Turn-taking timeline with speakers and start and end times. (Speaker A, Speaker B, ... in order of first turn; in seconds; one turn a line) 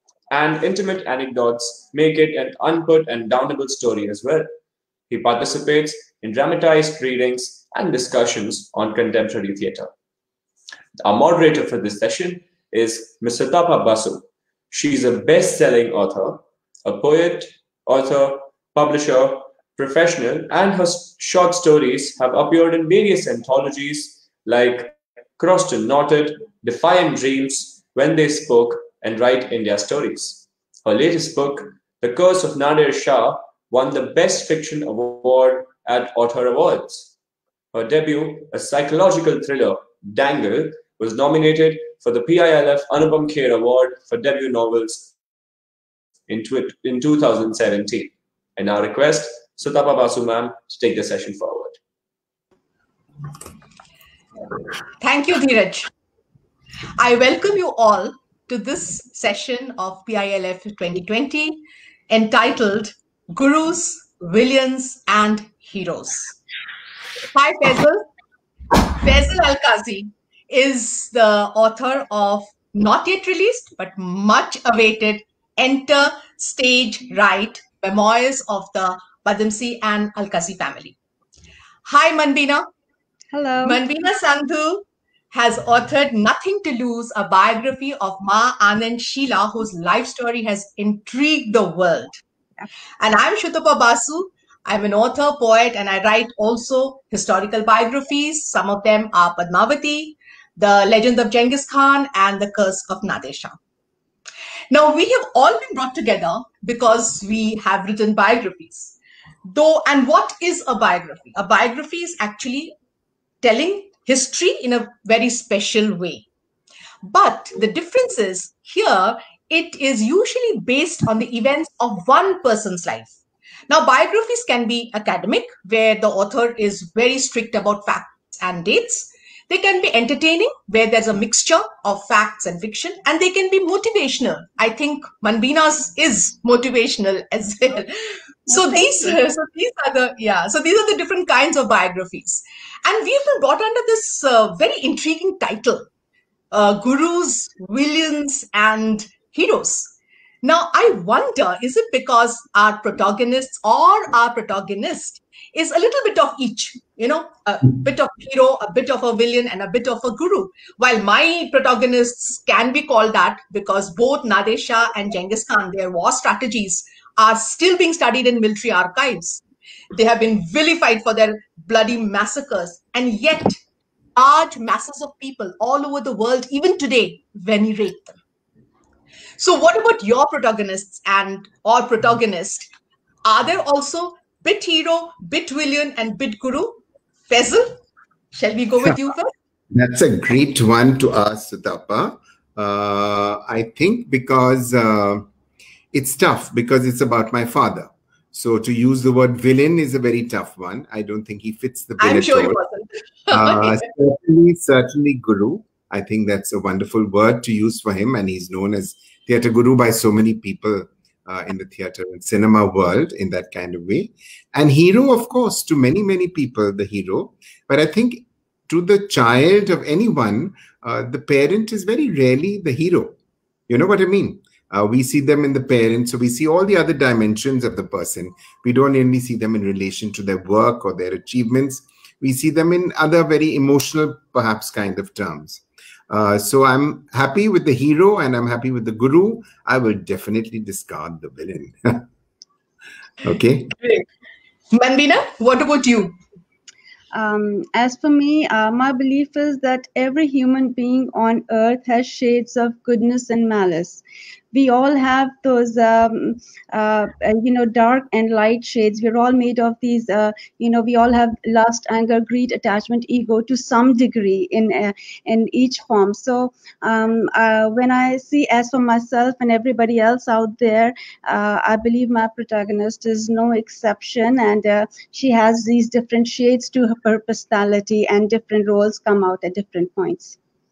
Speaker A: 0.3-4.5
Speaker A: 5.1-9.9
Speaker A: 11.0-37.1
Speaker A: 37.7-45.1
Speaker A: 46.3-51.8
Speaker B: 55.0-55.9
Speaker B: 57.0-66.4
Speaker B: 67.3-68.0
Speaker B: 68.8-81.0
Speaker B: 81.8-82.7
Speaker C: 83.3-83.8
Speaker B: 83.6-92.2
Speaker B: 93.0-103.6
Speaker B: 104.7-112.7
Speaker B: 113.4-116.3
Speaker B: 117.0-123.1
Speaker B: 123.7-137.9
Speaker B: 138.5-145.9
Speaker C: 138.5-139.1
Speaker B: 146.5-173.6
Speaker B: 174.2-178.1
Speaker B: 179.4-182.7
Speaker B: 183.2-187.8
Speaker B: 188.3-189.3
Speaker D: 189.7-195.3
Speaker D: 195.9-202.6
Speaker B: 202.0-203.8
Speaker D: 203.3-223.2
Speaker D: 223.7-242.0
Speaker D: 243.2-243.7
Speaker B: 243.8-244.1
Speaker B: 244.7-246.2
Speaker C: 247.1-254.0
Speaker C: 254.5-280.4